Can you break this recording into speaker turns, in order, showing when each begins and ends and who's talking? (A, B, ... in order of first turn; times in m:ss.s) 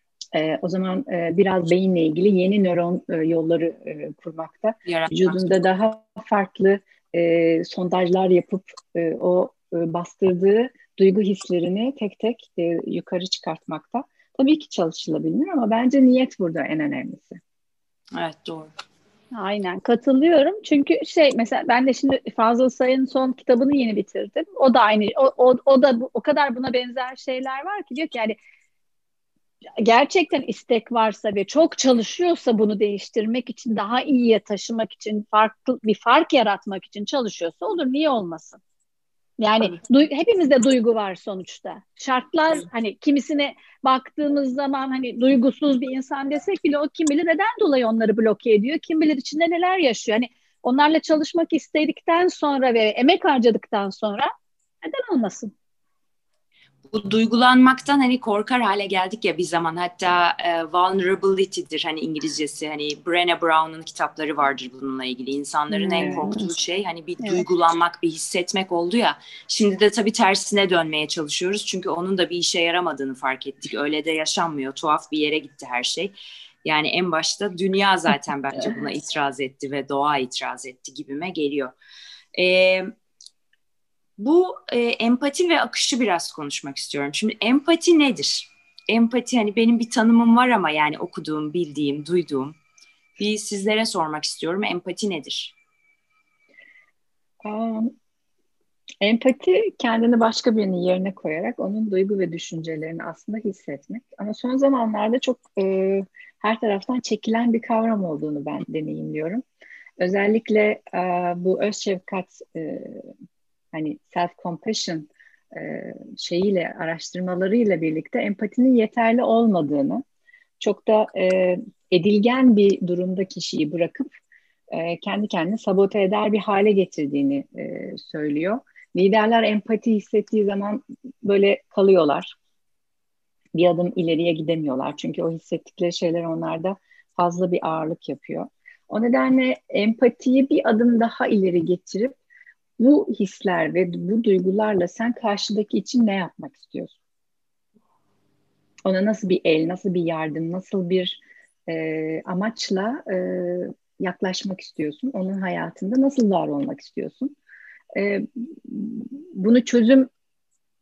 0:00.3-0:17.4 A
0:04.8-0:05.6 B
0:18.1-0:18.7 B
0:19.3-0:28.4 C
0:29.8-0:38.6 C
0:39.4-0:54.3 C
0:54.8-0:55.5 C
0:56.9-1:21.7 B
1:05.7-1:06.4 C
1:06.0-1:06.3 A
1:22.3-1:22.9 B
1:24.2-1:32.6 B
1:33.2-1:35.5 B
1:37.4-1:37.9 A
1:39.0-1:49.4 A
1:50.0-1:53.1 A
1:53.7-2:00.0 A
2:00.6-2:04.2 A
2:04.7-2:12.3 A
2:13.5-2:22.2 A
2:22.8-2:27.0 A
2:28.8-2:37.3 A
2:37.9-2:40.1 A